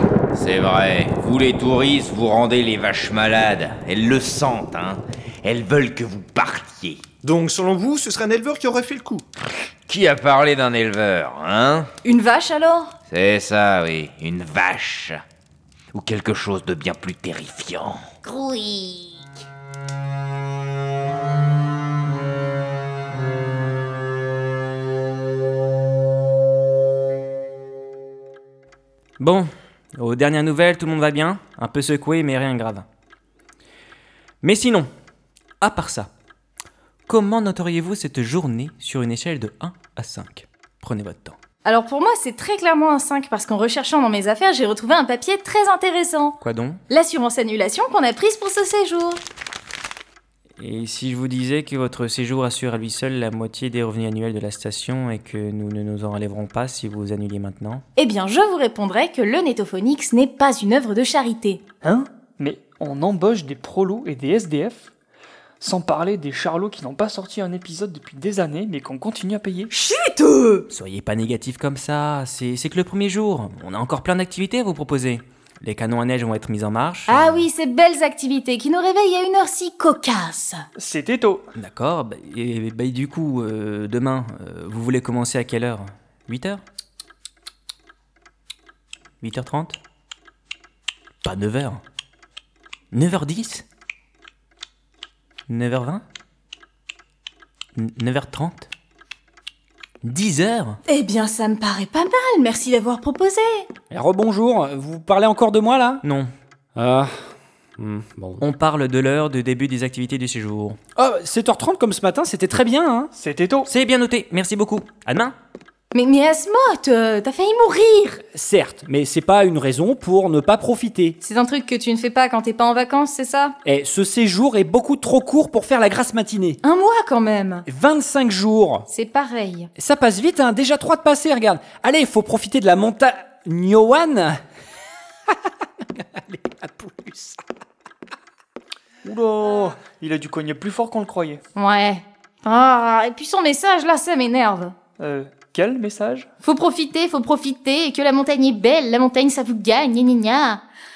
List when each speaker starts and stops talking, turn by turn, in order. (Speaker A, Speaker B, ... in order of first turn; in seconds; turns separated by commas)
Speaker A: 0.3-7.0, Speaker B: 7.2-9.2, Speaker A: 9.9-11.9, Speaker C: 12.0-12.9, Speaker A: 13.1-15.2, Speaker A: 15.9-18.1, Speaker C: 18.4-19.1, Speaker D: 29.2-32.9, Speaker D: 34.4-34.9, Speaker D: 35.6-36.1, Speaker D: 37.1-41.4, Speaker C: 41.6-46.4, Speaker D: 46.4-46.8, Speaker C: 46.9-49.2, Speaker D: 50.6-57.8, Speaker C: 58.0-61.6, Speaker E: 61.8-64.9, Speaker E: 65.6-69.7, Speaker C: 69.7-70.7, Speaker D: 70.7-77.5, Speaker C: 77.1-80.6, Speaker E: 80.8-81.5, Speaker D: 81.5-86.6, Speaker D: 89.2-89.8, Speaker D: 91.2-91.8, Speaker D: 92.9-93.6, Speaker D: 95.5-96.0, Speaker D: 97.8-98.7, Speaker D: 100.0-100.8, Speaker C: 100.9-103.7, Speaker F: 103.9-106.0, Speaker D: 106.0-106.3, Speaker F: 106.8-108.4, Speaker D: 108.4-110.8, Speaker F: 111.0-113.1, Speaker E: 113.1-113.7, Speaker D: 113.7-115.3, Speaker C: 115.9-118.2, Speaker F: 118.3-121.2, Speaker C: 121.2-123.5, Speaker F: 123.6-126.6, Speaker C: 126.6-127.7, Speaker F: 127.7-128.9, Speaker C: 128.9-129.7, Speaker F: 129.8-134.4, Speaker F: 136.0-137.4, Speaker E: 139.0-141.4, Speaker C: 141.5-144.8, Speaker E: 145.0-146.3, Speaker C: 146.4-150.6